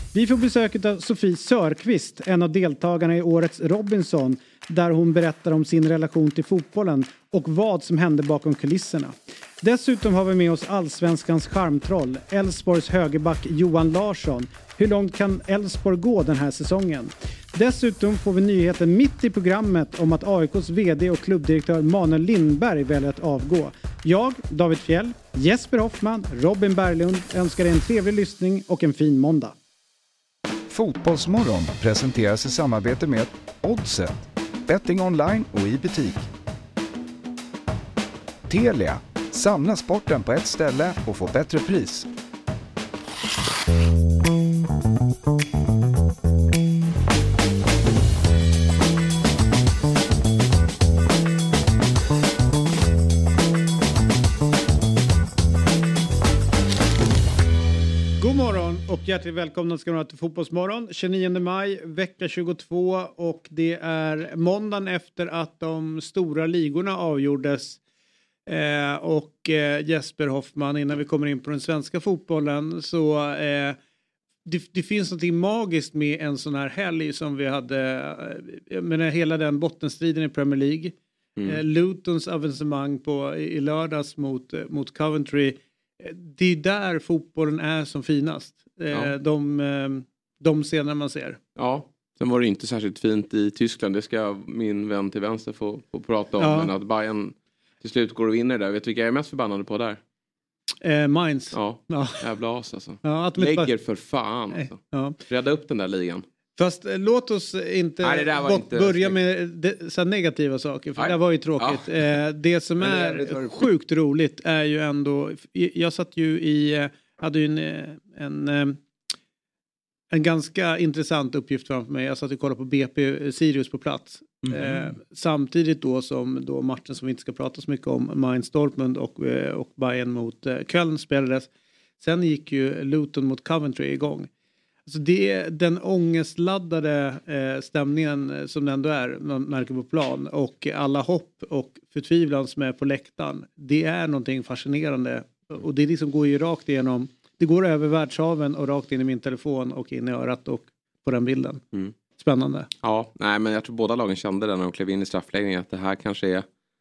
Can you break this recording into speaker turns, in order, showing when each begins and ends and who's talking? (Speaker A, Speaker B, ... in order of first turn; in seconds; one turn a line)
Speaker A: 0.1-29.5
Speaker B: 30.7-36.3
Speaker B: 38.5-42.1
Speaker A: 58.2-67.8
Speaker A: 68.5-73.8
Speaker A: 74.5-80.9
Speaker A: 81.5-91.4
Speaker C: 91.5-100.0
Speaker A: 96.4-96.7
Speaker A: 100.8-102.2
Speaker C: 101.5-106.2
Speaker A: 103.0-103.7
Speaker A: 104.5-105.2
Speaker A: 106.6-118.8
Speaker C: 108.0-109.1
Speaker C: 111.0-111.9
Speaker C: 112.8-113.7
Speaker A: 120.1-131.5
Speaker C: 124.4-124.9
Speaker A: 132.0-134.3
Speaker A: 134.8-151.6
Speaker A: 152.2-152.7
Speaker C: 152.8-156.4